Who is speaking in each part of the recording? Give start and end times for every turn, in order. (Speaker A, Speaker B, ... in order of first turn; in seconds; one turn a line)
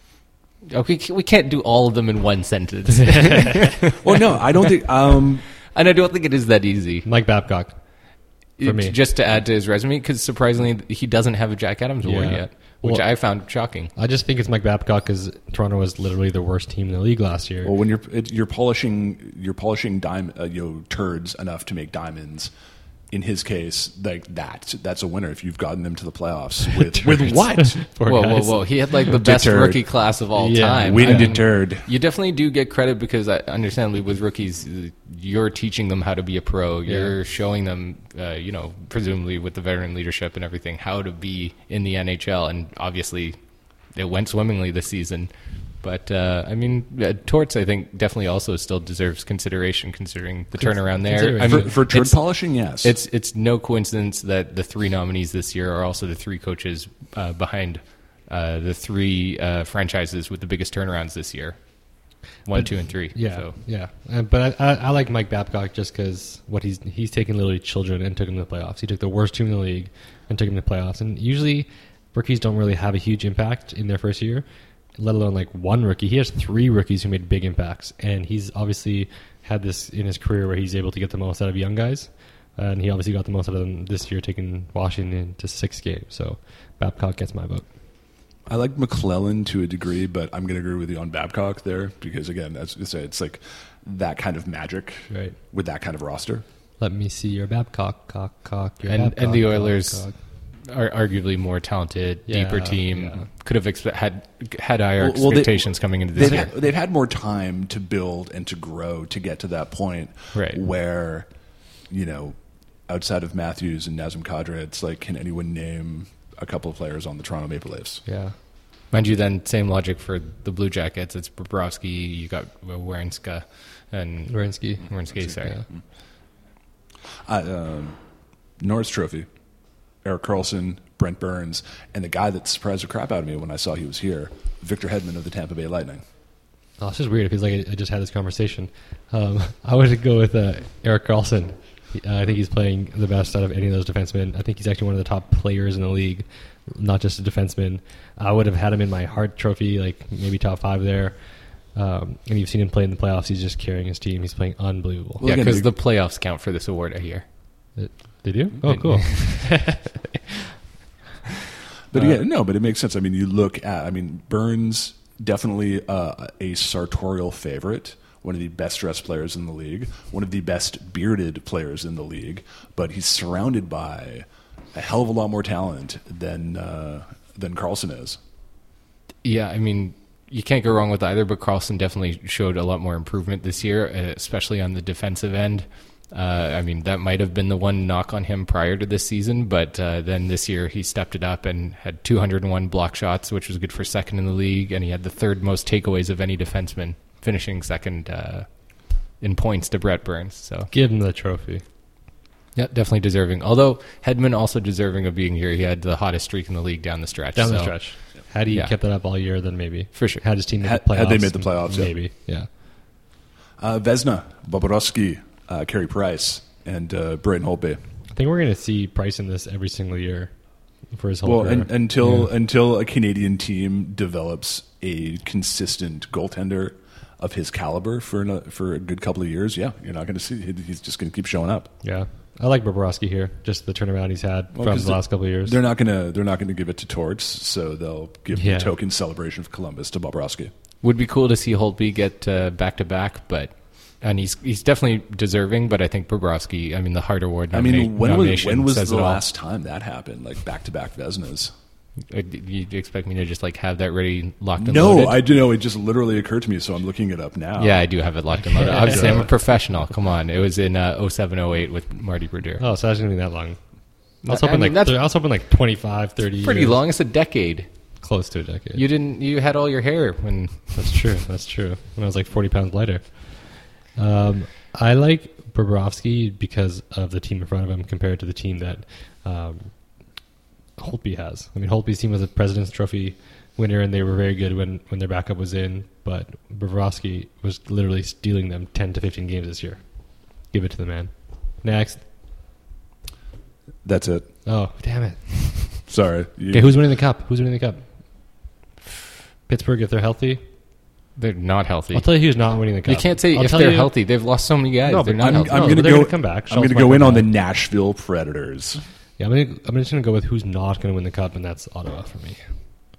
Speaker A: 0.7-4.8
Speaker B: 3.0-3.7
Speaker C: 4.0-5.5
Speaker A: 5.7-7.1
Speaker B: 7.1-7.8
Speaker A: 8.6-13.9
Speaker B: 8.6-9.0
Speaker B: 12.0-13.1
Speaker B: 13.9-17.7
Speaker C: 17.6-22.5
Speaker C: 23.1-27.8
Speaker B: 26.8-28.7
Speaker A: 28.1-43.4
Speaker C: 29.1-29.8
Speaker B: 30.4-31.4
Speaker C: 30.8-31.9
Speaker B: 36.9-37.1
Speaker A: 43.9-52.3
Speaker B: 50.5-51.8
Speaker C: 51.4-53.0
Speaker A: 52.8-61.6
Speaker A: 62.5-63.5
Speaker B: 62.5-74.5
Speaker B: 75.0-87.7
Speaker C: 88.5-96.4
Speaker B: 95.1-95.4
Speaker B: 96.8-100.2
Speaker A: 98.9-100.1
Speaker A: 100.6-106.5
Speaker B: 102.3-103.3
Speaker C: 105.0-111.3
Speaker A: 110.3-110.6
Speaker C: 111.9-118.0
Speaker B: 118.1-118.3
Speaker A: 118.9-125.6
Speaker B: 124.3-124.9
Speaker C: 127.3-128.0
Speaker C: 128.6-129.3
Speaker C: 130.0-136.0
Speaker B: 136.8-155.3
Speaker C: 155.2-155.7
Speaker A: 155.2-157.3
Speaker B: 157.8-160.2
Speaker A: 158.7-159.5
Speaker C: 161.9-178.2
Speaker A: 179.2-200.7
Speaker B: 200.7-201.6
Speaker A: 202.6-207.9
Speaker B: 207.3-212.5
Speaker A: 208.5-208.8
Speaker A: 209.9-210.2
Speaker C: 210.6-211.9
Speaker C: 213.6-217.8
Speaker B: 218.1-220.3
Speaker B: 220.9-222.3
Speaker C: 221.2-231.7
Speaker B: 231.8-235.6
Speaker C: 234.5-240.5
Speaker B: 238.3-238.7
Speaker A: 240.8-249.2
Speaker C: 247.5-251.5
Speaker A: 252.1-255.2
Speaker C: 254.6-257.9
Speaker A: 257.6-262.6
Speaker B: 258.4-259.3
Speaker C: 258.9-259.2
Speaker B: 262.6-263.6
Speaker B: 264.2-266.8
Speaker A: 264.2-265.0
Speaker A: 266.4-267.7
Speaker B: 268.0-268.8
Speaker A: 268.7-271.0
Speaker B: 270.8-279.9
Speaker B: 280.8-292.1
Speaker C: 293.8-294.3
Speaker B: 294.5-295.9
Speaker C: 295.9-296.8
Speaker B: 296.5-297.9
Speaker B: 299.5-300.4
Speaker A: 301.2-305.9
Speaker B: 301.9-303.9
Speaker B: 304.9-307.3
Speaker C: 305.2-308.8
Speaker B: 309.2-312.4